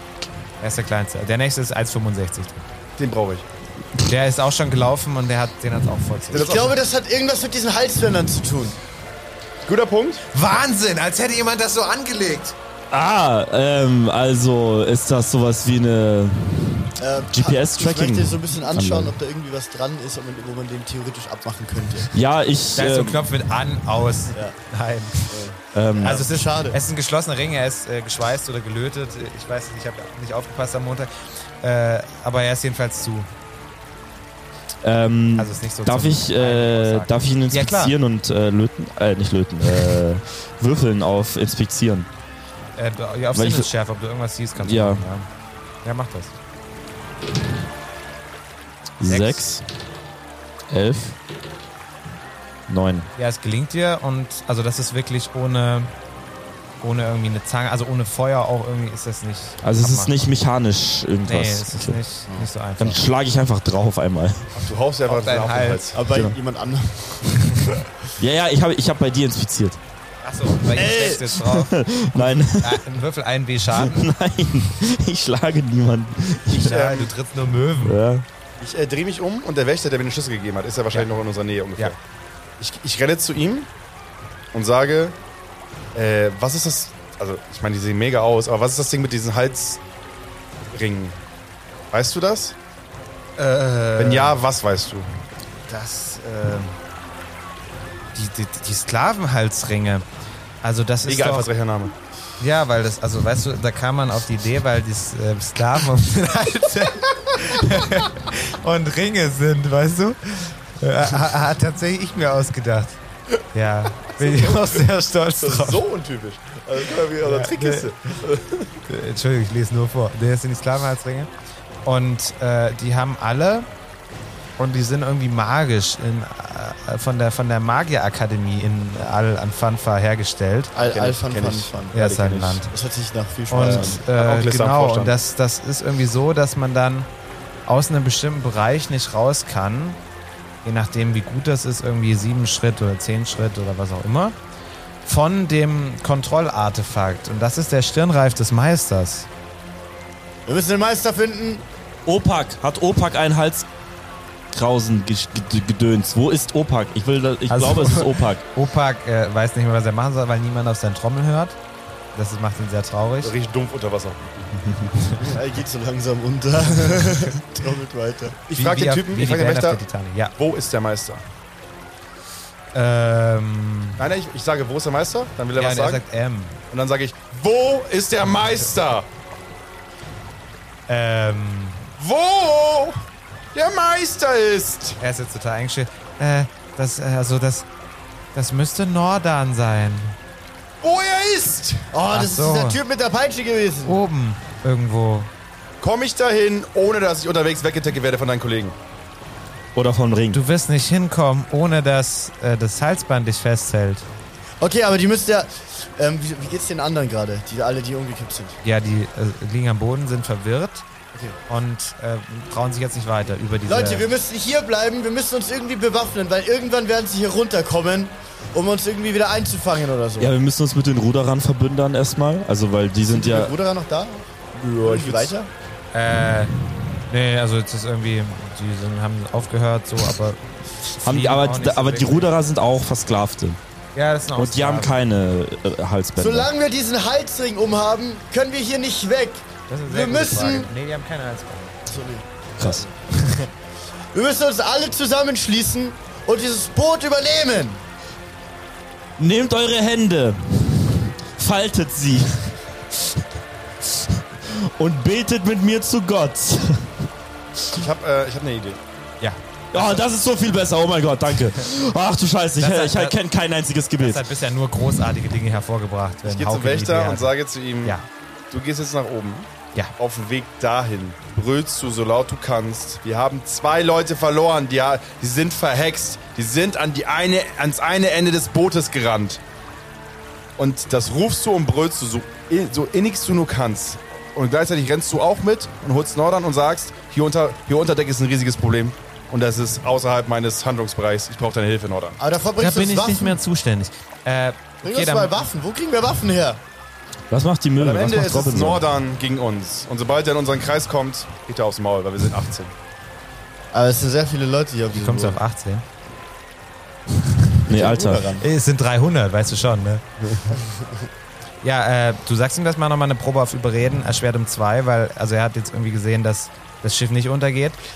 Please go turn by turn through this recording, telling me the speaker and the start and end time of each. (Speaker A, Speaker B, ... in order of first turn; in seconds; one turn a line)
Speaker A: 0.6-2.6
Speaker B: 3.0-3.5
Speaker A: 4.1-6.7
Speaker C: 6.3-8.8
Speaker B: 6.3-6.7
Speaker B: 9.6-10.2
Speaker A: 10.3-12.6
Speaker D: 12.9-19.2
Speaker C: 17.0-22.1
Speaker D: 22.1-23.3
Speaker A: 22.8-25.4
Speaker C: 25.3-26.8
Speaker D: 25.7-26.3
Speaker A: 26.0-31.1
Speaker A: 31.6-33.3
Speaker D: 34.8-42.1
Speaker A: 35.4-38.0
Speaker A: 42.8-45.3
Speaker D: 43.3-43.7
Speaker D: 44.6-45.0
Speaker A: 45.8-46.3
Speaker D: 49.0-49.6
Speaker A: 49.1-49.5
Speaker D: 50.7-51.2
Speaker D: 52.7-53.1
Speaker A: 53.2-55.9
Speaker A: 56.8-60.3
Speaker D: 59.6-62.0
Speaker A: 61.2-63.0
Speaker C: 62.3-62.9
Speaker D: 62.8-64.5
Speaker B: 64.6-66.0
Speaker A: 65.1-65.9
Speaker C: 65.9-67.9
Speaker D: 66.1-66.4
Speaker D: 68.2-69.8
Speaker A: 70.2-74.0
Speaker D: 70.7-72.8
Speaker D: 73.8-76.9
Speaker A: 76.5-78.0
Speaker B: 76.6-77.1
Speaker D: 77.8-78.2
Speaker B: 78.6-82.0
Speaker B: 82.6-83.7
Speaker B: 84.5-85.2
Speaker B: 85.9-89.8
Speaker B: 90.7-91.2
Speaker B: 91.9-92.5
Speaker A: 93.4-94.4
Speaker B: 94.0-95.1
Speaker A: 95.7-96.8
Speaker A: 98.2-100.0
Speaker A: 100.6-101.5
Speaker B: 101.0-101.9
Speaker A: 102.4-113.0
Speaker A: 113.5-115.8
Speaker B: 114.2-114.9
Speaker B: 115.4-118.8
Speaker A: 117.2-118.1
Speaker A: 118.9-121.3
Speaker A: 121.8-123.7
Speaker A: 124.6-130.7
Speaker C: 130.7-134.0
Speaker B: 130.8-131.8
Speaker A: 131.9-132.7
Speaker A: 133.5-137.1
Speaker B: 133.5-135.2
Speaker A: 137.7-140.0
Speaker A: 140.6-144.4
Speaker A: 145.0-149.3
Speaker C: 150.5-151.7
Speaker D: 152.1-153.7
Speaker D: 154.5-158.4
Speaker A: 157.5-161.6
Speaker A: 162.1-163.3
Speaker B: 163.2-164.6
Speaker D: 164.6-164.9
Speaker C: 165.2-168.4
Speaker B: 168.5-169.8
Speaker A: 168.5-170.3
Speaker B: 170.4-171.2
Speaker A: 172.7-174.1
Speaker B: 174.0-176.0
Speaker A: 175.6-176.6
Speaker B: 176.7-179.1
Speaker A: 180.9-181.9
Speaker B: 182.0-183.0
Speaker B: 183.5-185.0
Speaker A: 185.0-187.7
Speaker A: 188.3-190.2
Speaker B: 190.8-191.9
Speaker C: 191.9-194.0
Speaker A: 192.1-192.8
Speaker A: 193.8-195.3
Speaker B: 195.8-198.8
Speaker D: 199.8-200.4
Speaker A: 200.3-204.1
Speaker C: 204.6-208.6
Speaker A: 208.6-210.8
Speaker C: 211.1-211.4
Speaker A: 211.5-214.1
Speaker C: 213.7-220.3
Speaker D: 220.2-223.5
Speaker C: 223.1-225.5
Speaker B: 224.6-225.3
Speaker A: 225.9-226.5
Speaker A: 227.1-232.3
Speaker D: 231.0-233.6
Speaker A: 233.9-235.0
Speaker D: 234.4-236.5
Speaker C: 236.2-240.7
Speaker A: 239.7-241.8
Speaker C: 241.8-243.0
Speaker D: 242.6-242.9
Speaker A: 243.1-243.5
Speaker C: 244.1-247.8
Speaker D: 249.2-252.6
Speaker D: 253.8-257.0
Speaker B: 257.7-258.8
Speaker A: 259.2-260.1
Speaker D: 259.7-264.2
Speaker A: 262.6-263.2
Speaker A: 264.0-268.1
Speaker B: 266.2-268.0
Speaker B: 268.5-279.4
Speaker B: 280.6-292.2
Speaker C: 292.2-293.4
Speaker A: 292.6-295.4
Speaker C: 294.8-296.6
Speaker D: 297.3-298.8
Speaker B: 297.8-302.7
Speaker C: 303.7-305.4
Speaker A: 304.9-305.8
Speaker C: 307.6-308.5
Speaker D: 307.7-308.3
Speaker A: 308.4-310.0
Speaker C: 310.5-311.0
Speaker A: 311.6-317.8